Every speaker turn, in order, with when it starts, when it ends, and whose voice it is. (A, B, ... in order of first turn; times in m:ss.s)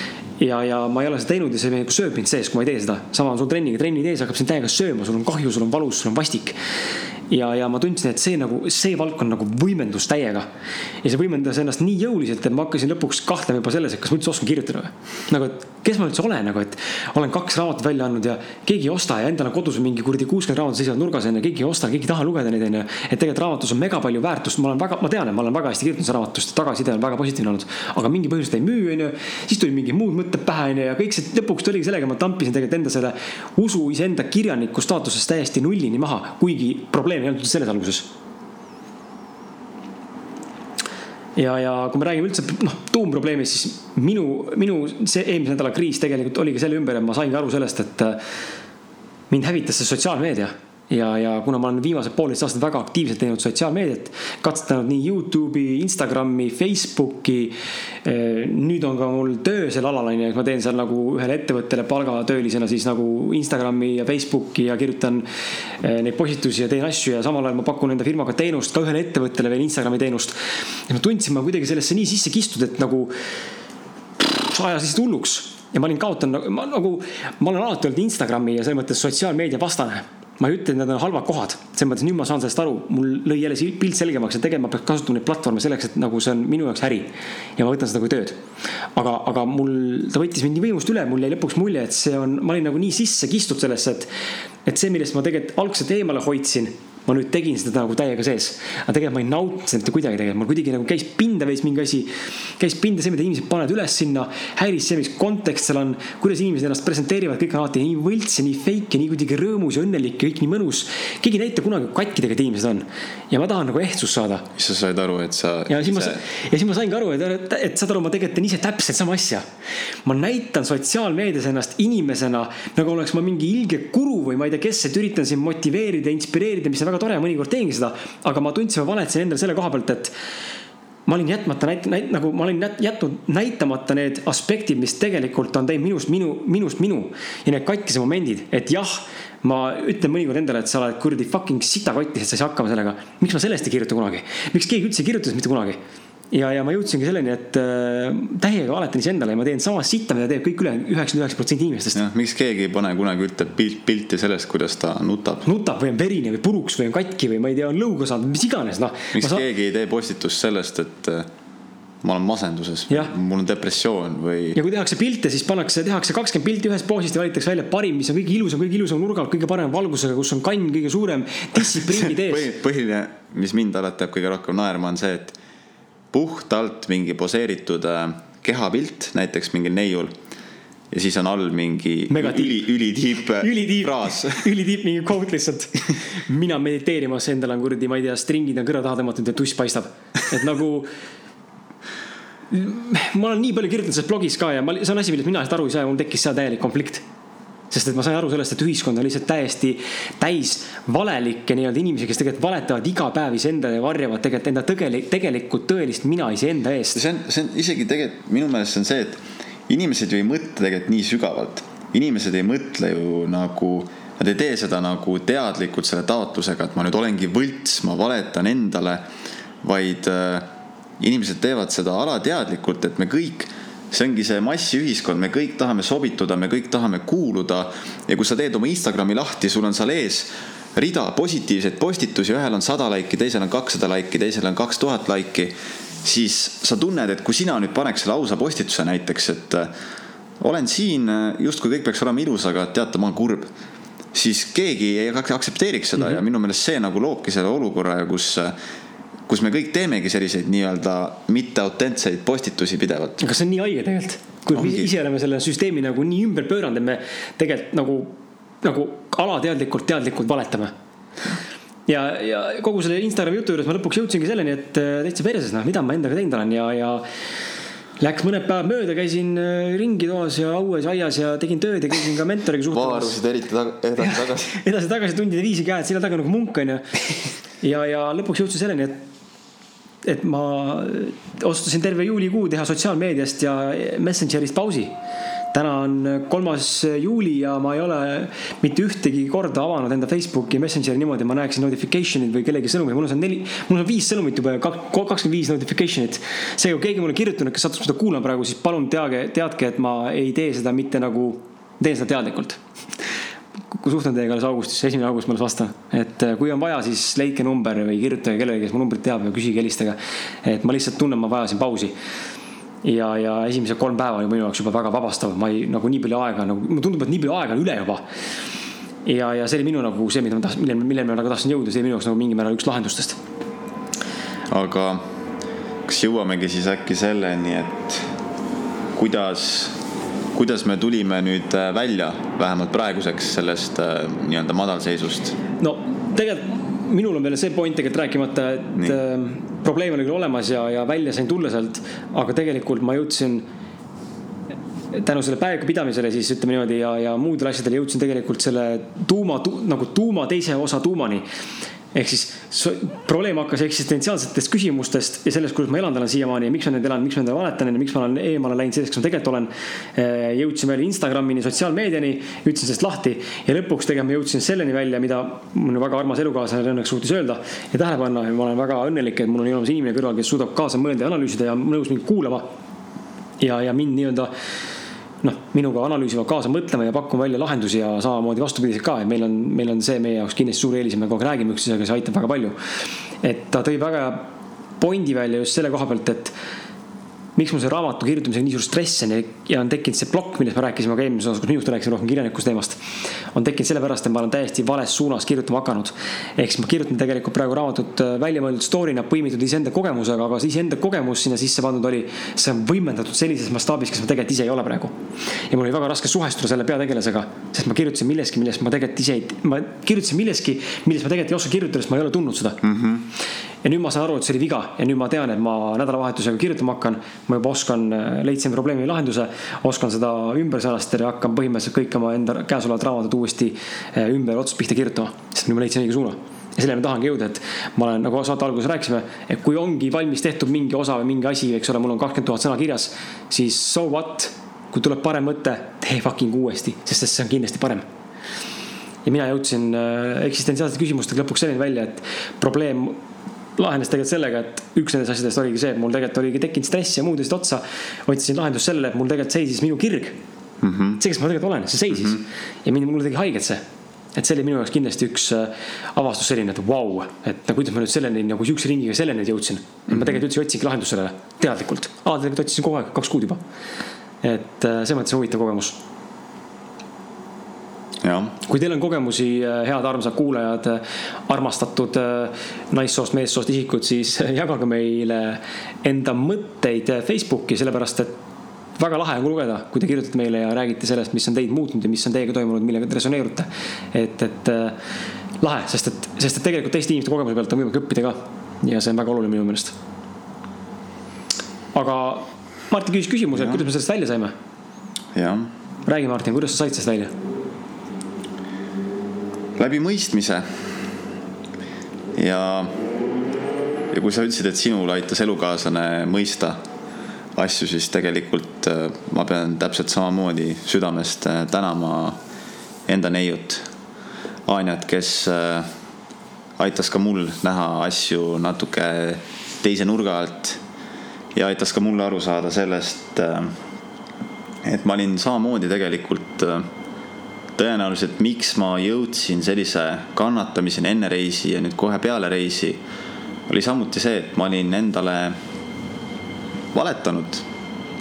0:00.4-0:06.6 A
0:07.3-0:10.5 A
0:11.0-0:38.1 A
0:41.4-0:48.2 A
0:49.3-1:05.2 A
1:05.8-1:10.4 A
1:10.9-1:13.1 A
1:14.2-1:28.4 A
1:29.0-1:34.1 A
1:34.7-1:54.5 A
1:54.6-1:56.2 B
1:55.7-1:59.5 A
2:00.0-2:10.1 A
2:11.1-2:25.8 A
2:26.3-2:32.0 A
2:32.0-2:35.4 B
2:35.4-2:39.4 A
2:39.1-2:41.3 B
2:42.0-2:44.6 B
2:44.6-2:52.5 A
2:51.8-2:55.4 B
2:56.1-3:00.2 B
3:00.9-3:04.5 B
3:02.1-3:02.7 A
3:03.4-3:10.9 A
3:12.5-3:17.0 A
3:17.7-3:27.0 A
3:26.9-3:39.0 B
3:39.6-3:40.5 B
3:41.0-3:59.7 B
4:00.4-4:03.5 B
4:04.1-4:08.6 B
4:09.3-4:13.2 B
4:13.2-4:20.7 A
4:14.5-4:14.9 B
4:21.9-4:27.0 A
4:28.0-4:33.2 A
4:32.7-4:34.5 B
4:34.0-4:36.9 A
4:37.6-4:39.0 A
4:40.0-4:44.9 A
4:45.5-5:02.6 A
5:03.7-5:11.9 A
5:12.8-5:18.0 A
5:19.0-5:23.2 A
5:24.5-5:25.0 B
5:25.9-5:28.1 B
5:29.0-5:29.8 B
5:30.3-5:35.4 B
5:35.6-5:43.5 A
5:44.9-5:51.2 A
5:51.9-6:12.5 A
6:13.4-6:14.3 A
6:15.2-6:22.6 A
6:23.2-6:24.3 A
6:24.8-6:26.3 A
6:27.4-6:32.8 A
6:33.3-6:45.0 A
6:45.5-6:52.6 A
6:52.6-6:53.1 B
6:53.6-7:17.8 A
7:19.0-7:23.0 A
7:23.6-7:30.2 A
7:30.6-7:31.0 B
7:31.0-7:33.6 A
7:34.2-7:43.4 A
7:44.2-7:45.8 A
7:48.0-7:48.4 B
7:48.4-7:58.1 A
7:58.8-8:04.8 A
8:05.4-8:09.8 A
8:11.7-8:14.3 A
8:13.4-8:13.6 B
8:15.1-8:15.5 B
8:15.8-8:17.1 A
8:19.6-8:20.8 B
8:22.2-8:22.8 B
8:23.9-8:26.6 B
8:27.4-8:32.2 B
8:32.9-8:33.7 B
8:34.5-8:35.7 B
8:36.6-8:40.6 B
8:41.3-8:43.6 B
8:44.6-8:46.7 B
8:47.6-8:52.8 B
8:53.5-8:55.4 B
8:56.7-8:57.5 B